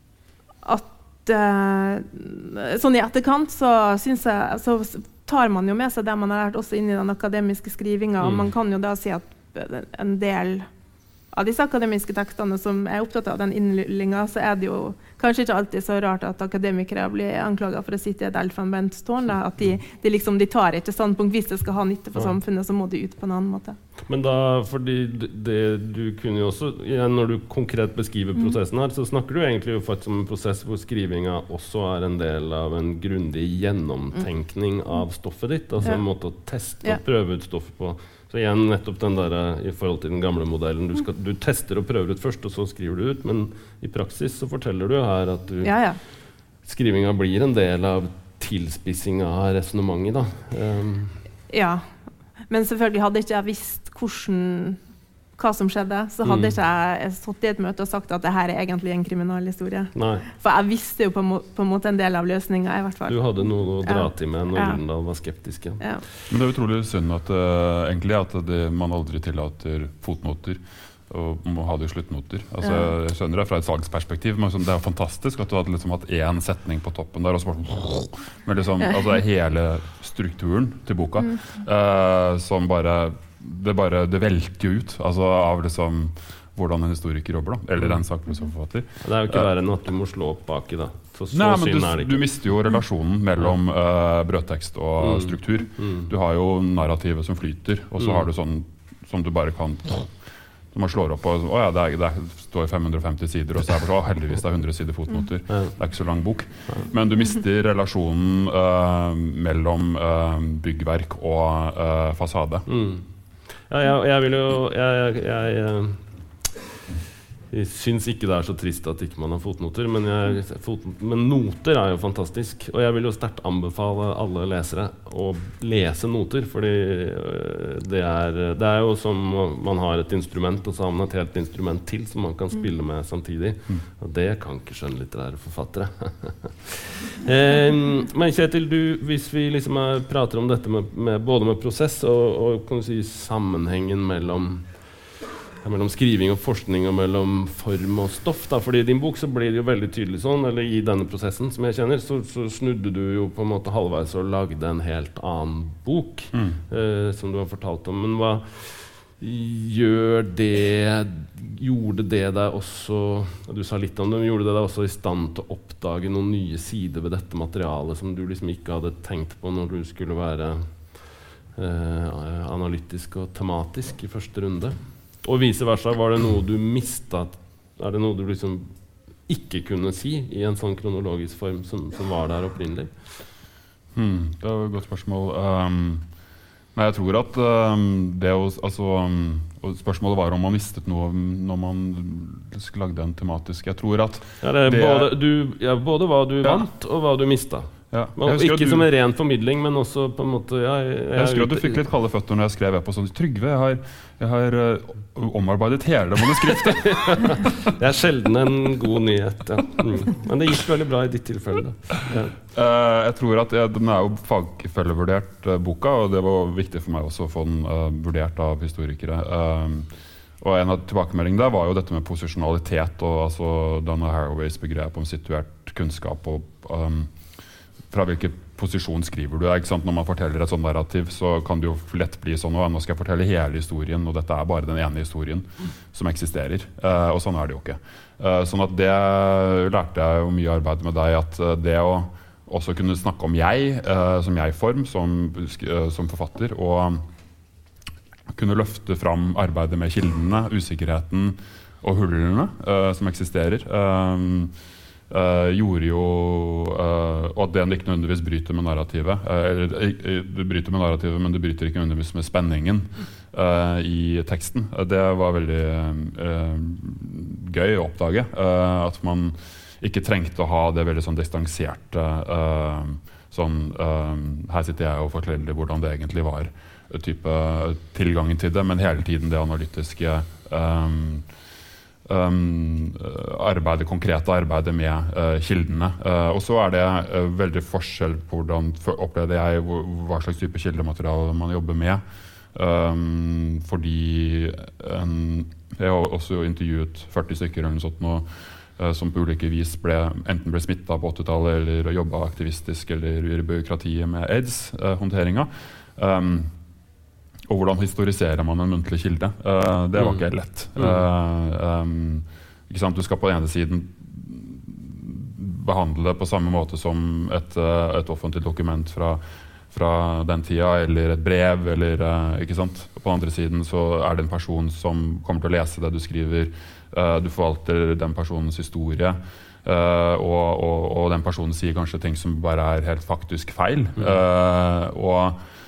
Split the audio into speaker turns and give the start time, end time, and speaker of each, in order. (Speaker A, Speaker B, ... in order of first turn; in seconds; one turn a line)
Speaker A: 0.6-10.7
Speaker B: 8.2-8.5
Speaker A: 11.3-23.8
Speaker B: 24.1-45.8
Speaker A: 45.6-46.0
Speaker B: 46.6-51.2
Speaker A: 51.5-51.9
Speaker A: 52.5-54.8
Speaker A: 55.4-64.8
Speaker B: 56.2-56.5
Speaker B: 59.9-60.3
Speaker B: 63.1-65.9
Speaker C: 66.3-89.5
Speaker B: 87.8-88.0
Speaker B: 89.0-92.2
Speaker C: 91.3-100.2
Speaker B: 95.0-96.1
Speaker B: 98.0-98.3
Speaker C: 100.7-112.7
Speaker B: 105.5-105.8
Speaker B: 112.7-116.0
Speaker B: 117.5-144.8
Speaker B: 145.6-178.7
Speaker C: 156.3-156.6
Speaker B: 179.2-183.2
Speaker C: 183.9-186.1
Speaker C: 186.8-195.1
Speaker B: 194.4-201.8
Speaker C: 197.9-198.9
Speaker C: 201.1-207.4
Speaker B: 206.7-212.4
Speaker C: 212.5-227.1
Speaker C: 227.9-247.0
Speaker C: 248.3-254.5
Speaker C: 255.1-281.3
Speaker C: 282.1-292.0
Speaker C: 292.5-306.5
Speaker C: 307.5-335.4
Speaker B: 310.0-311.0